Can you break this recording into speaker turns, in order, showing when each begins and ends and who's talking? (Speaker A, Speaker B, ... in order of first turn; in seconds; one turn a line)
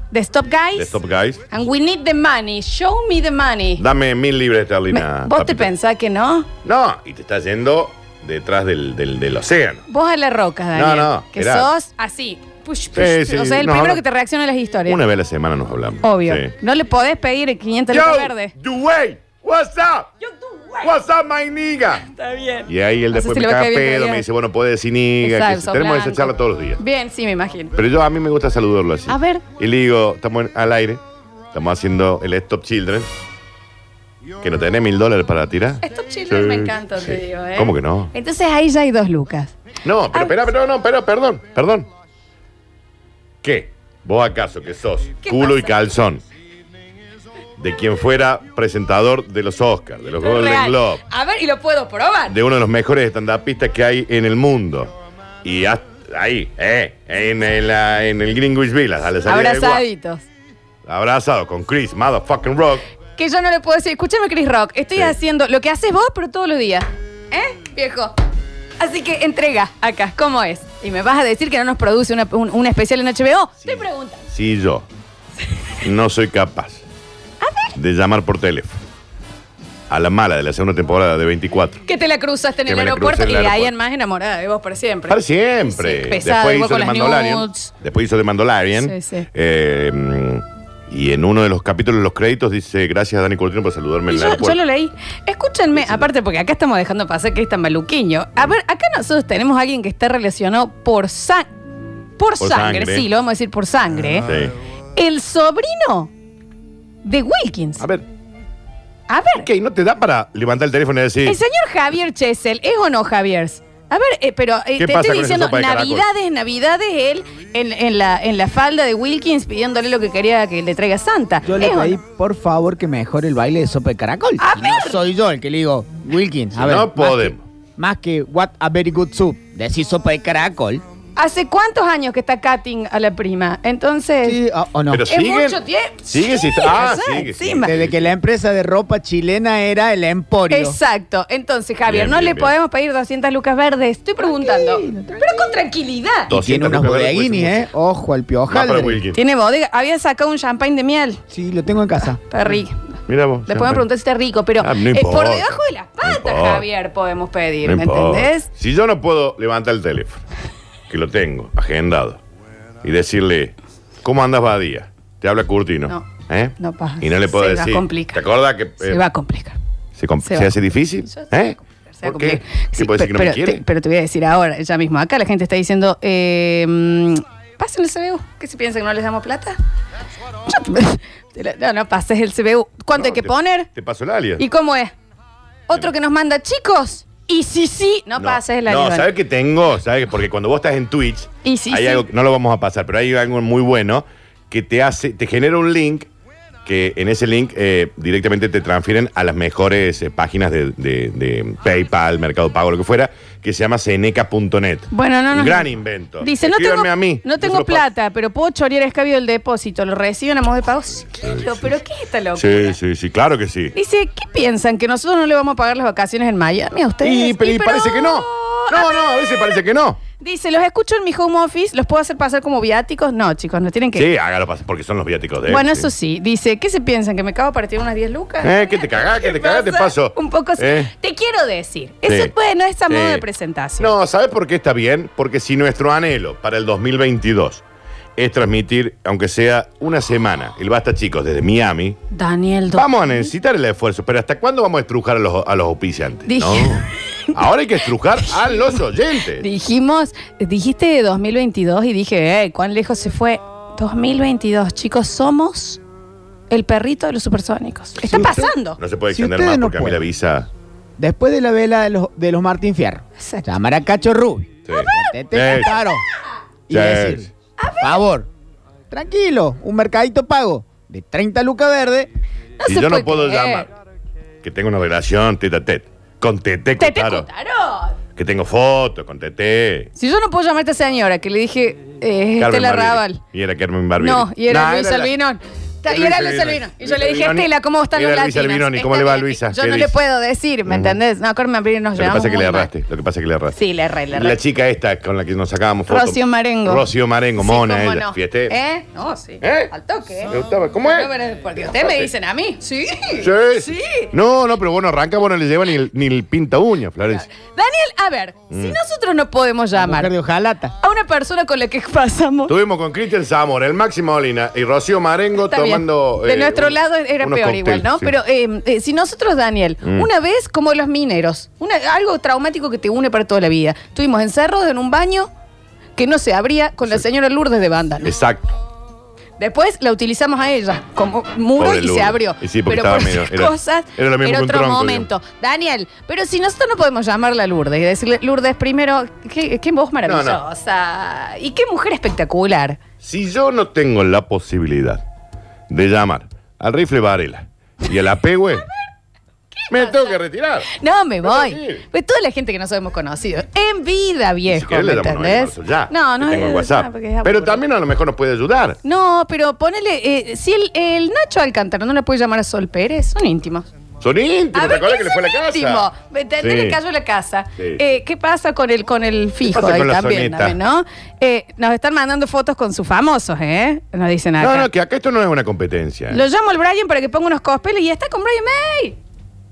Speaker A: 0.1-0.9
Speaker B: 0.7-1.4
Speaker A: 1.5-3.8
Speaker B: 3.8-5.7
Speaker A: 4.9-6.5
Speaker B: 6.6-9.8
Speaker A: 9.9-15.0
Speaker B: 10.7-11.7
Speaker B: 12.9-14.0
Speaker B: 14.9-16.5
Speaker A: 16.0-18.5
Speaker B: 17.9-20.1
Speaker A: 20.2-20.9
Speaker B: 20.8-22.0
Speaker A: 22.1-24.2
Speaker B: 22.7-26.8
Speaker A: 25.2-27.8
Speaker B: 27.8-33.1
Speaker A: 29.1-29.4
Speaker B: 34.4-38.1
Speaker A: 35.8-39.5
Speaker B: 39.8-41.9
Speaker B: 43.4-46.2
Speaker A: 45.2-45.8
Speaker B: 47.6-51.0
Speaker A: 50.1-52.4
Speaker B: 52.3-59.8
Speaker A: 59.2-60.2
Speaker B: 60.9-62.9
Speaker A: 63.1-68.1
Speaker A: 68.8-74.2
Speaker B: 73.6-74.8
Speaker B: 75.8-76.8
Speaker A: 77.4-77.7
Speaker B: 77.8-78.8
Speaker B: 79.9-81.8
Speaker A: 81.8-87.7
Speaker B: 82.6-83.7
Speaker B: 85.1-94.6
Speaker A: 88.8-89.3
Speaker A: 94.1-101.5
Speaker B: 95.7-96.0
Speaker A: 102.2-104.3
Speaker B: 102.4-103.1
Speaker B: 104.2-104.5
Speaker A: 104.9-106.1
Speaker A: 107.0-107.8
Speaker B: 107.8-108.0
Speaker A: 109.1-109.5
Speaker B: 109.4-111.4
Speaker A: 111.2-122.0
Speaker B: 114.8-116.0
Speaker C: 121.4-127.2
Speaker A: 124.4-125.0
Speaker B: 126.5-127.4
Speaker C: 127.8-130.8
Speaker A: 131.2-134.4
Speaker C: 134.2-135.1
Speaker B: 134.9-138.1
Speaker A: 135.1-137.7
Speaker C: 137.6-140.8
Speaker A: 140.5-146.3
Speaker B: 141.9-142.5
Speaker C: 144.2-145.4
Speaker B: 146.3-147.7
Speaker C: 146.3-149.0
Speaker B: 148.5-149.2
Speaker A: 149.1-151.2
Speaker C: 151.3-152.2
Speaker A: 152.2-152.8
Speaker B: 153.1-153.9
Speaker A: 153.5-158.5
Speaker B: 154.6-156.6
Speaker B: 157.6-160.2
Speaker B: 160.9-162.2
Speaker B: 162.8-169.0
Speaker A: 165.9-168.2
Speaker A: 168.8-169.6
Speaker B: 169.9-173.6
Speaker A: 170.2-170.5
Speaker A: 171.0-179.6
Speaker A: 180.5-183.7
Speaker B: 182.9-184.4
Speaker A: 184.4-184.9
Speaker A: 185.7-189.1
Speaker B: 188.2-196.1
Speaker A: 191.4-192.0
Speaker B: 196.6-207.8
Speaker A: 204.9-205.7
Speaker A: 206.2-212.8
Speaker B: 211.2-211.7
Speaker B: 212.3-213.7
Speaker A: 213.7-219.6
Speaker B: 217.0-220.0
Speaker A: 220.2-224.1
Speaker B: 223.9-225.9
Speaker A: 225.5-233.9
Speaker B: 228.4-230.9
Speaker B: 232.1-232.3
Speaker B: 232.9-233.2
Speaker B: 233.8-237.6
Speaker B: 238.2-242.0
Speaker A: 242.1-243.3
Speaker B: 242.7-249.4
Speaker A: 246.3-246.8
Speaker A: 249.4-255.8
Speaker A: 256.5-258.8
Speaker C: 258.1-258.5
Speaker B: 258.1-260.5
Speaker C: 259.1-260.0
Speaker C: 261.0-266.0
Speaker A: 263.1-263.5
Speaker B: 264.7-265.8
Speaker A: 264.7-265.7
Speaker C: 266.7-267.3
Speaker B: 266.7-267.3
Speaker A: 267.6-268.1
Speaker C: 267.8-268.3
Speaker C: 268.9-272.1
Speaker A: 272.6-273.7
Speaker B: 272.6-273.7
Speaker B: 274.4-277.3
Speaker A: 276.8-277.9
Speaker B: 278.1-279.9
Speaker A: 279.9-283.2
Speaker B: 282.4-285.1
Speaker A: 284.0-292.7
Speaker B: 285.9-289.9
Speaker B: 290.7-291.0
Speaker B: 291.9-293.6
Speaker A: 293.5-294.4
Speaker B: 294.1-298.5
Speaker A: 295.9-296.9
Speaker A: 297.4-300.3
Speaker B: 299.4-299.7
Speaker B: 300.3-301.1
Speaker A: 300.9-304.1
Speaker B: 301.7-302.1
Speaker B: 303.2-307.2
Speaker A: 307.1-310.1
Speaker B: 308.5-308.8
Speaker C: 309.8-310.7
Speaker A: 310.8-312.5
Speaker B: 312.5-318.1
Speaker A: 315.4-325.3
Speaker B: 319.8-320.1
Speaker A: 326.0-328.1
Speaker B: 328.0-328.5
Speaker A: 329.4-342.8
Speaker B: 331.6-335.1
Speaker B: 340.1-340.4
Speaker B: 343.0-345.0
Speaker B: 345.7-348.6
Speaker A: 349.6-350.1
Speaker B: 349.7-350.7
Speaker A: 350.7-357.6
Speaker B: 351.2-351.8
Speaker B: 354.5-358.8
Speaker A: 358.8-363.7
Speaker B: 364.0-365.9
Speaker A: 364.5-374.7
Speaker B: 366.4-366.8
Speaker B: 369.4-370.6
Speaker B: 374.4-376.2
Speaker A: 376.1-379.0